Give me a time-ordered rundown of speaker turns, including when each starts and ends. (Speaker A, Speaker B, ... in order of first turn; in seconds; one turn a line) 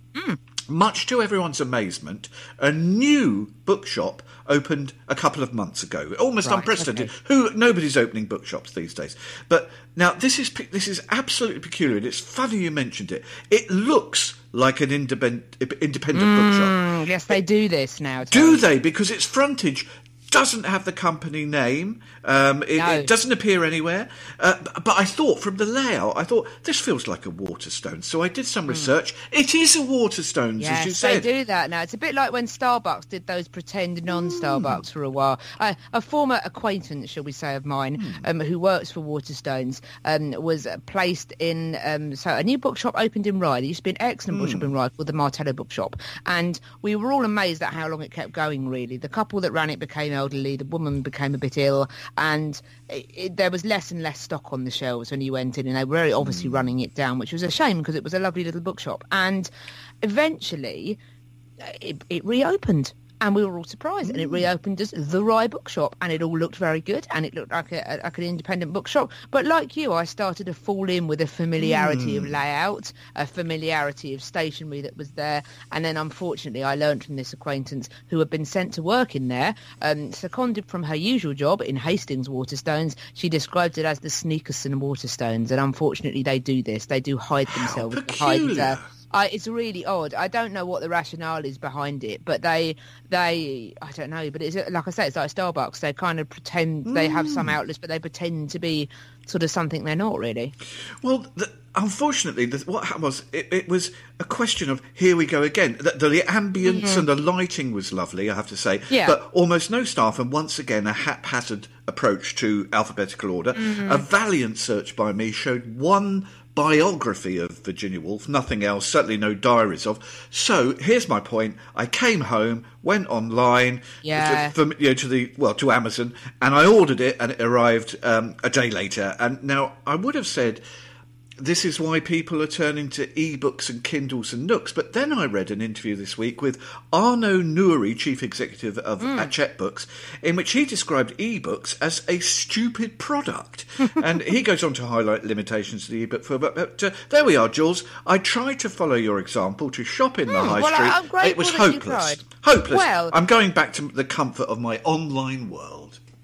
Speaker A: 0.7-16.8
Speaker B: 6.4-7.1
Speaker B: 16.1-18.6
Speaker A: 18.3-31.3
Speaker B: 22.8-23.1
Speaker B: 30.6-59.5
Speaker A: 34.2-34.8
Speaker A: 38.0-38.2
Speaker A: 44.3-44.7
Speaker A: 56.2-56.7
Speaker B: 60.0-61.0
Speaker B: 61.6-100.5
Speaker A: 64.0-64.5
Speaker A: 71.6-72.4
Speaker A: 87.5-88.9
Speaker A: 96.8-97.5
Speaker A: 101.0-130.6
Speaker B: 106.6-107.0
Speaker B: 108.9-109.2
Speaker B: 113.5-114.0
Speaker B: 124.0-124.5
Speaker A: 131.4-156.0
Speaker B: 139.0-139.3
Speaker B: 150.3-153.1